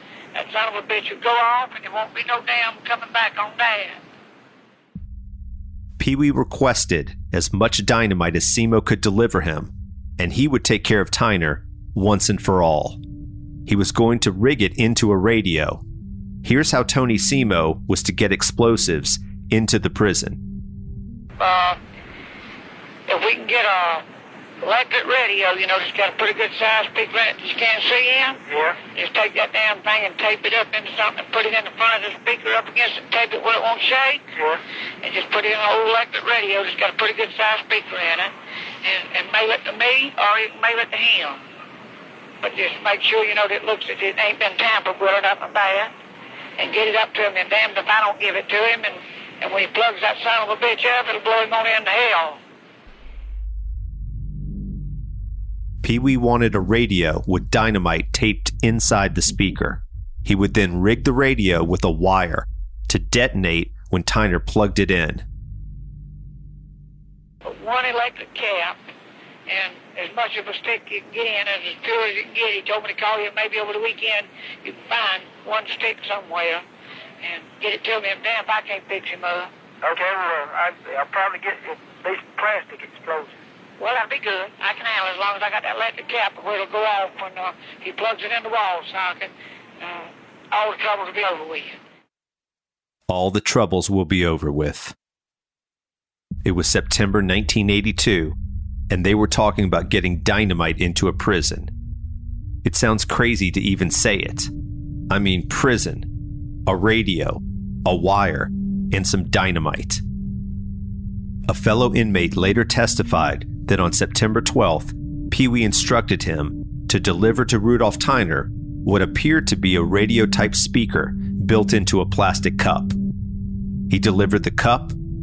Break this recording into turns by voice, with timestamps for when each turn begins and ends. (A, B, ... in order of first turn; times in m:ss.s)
0:00.3-0:04.0 A
0:06.0-0:13.0 B
0:13.6-0:15.8 B
0:16.4-0:20.4 B
0:21.4-0:21.8 A
0:23.1-0:24.0 A
0:24.6-0:34.2 A
0:35.0-0:38.3 A
0:38.8-0:41.4 A
0:42.4-0:45.9 A
0:46.6-0:52.4 A
0:55.8-1:05.2 B
1:07.4-1:08.8 A
1:09.5-1:16.6 A
1:17.2-1:19.5 A
1:19.8-1:23.3 C
1:23.8-1:31.8 A
1:33.1-1:34.9 B
1:36.4-1:38.4 B
1:38.9-1:41.7 B
1:42.6-1:44.5 B
1:45.1-1:46.1 B
1:46.6-1:50.0 B
1:51.5-2:02.9 B
2:03.9-2:04.9 B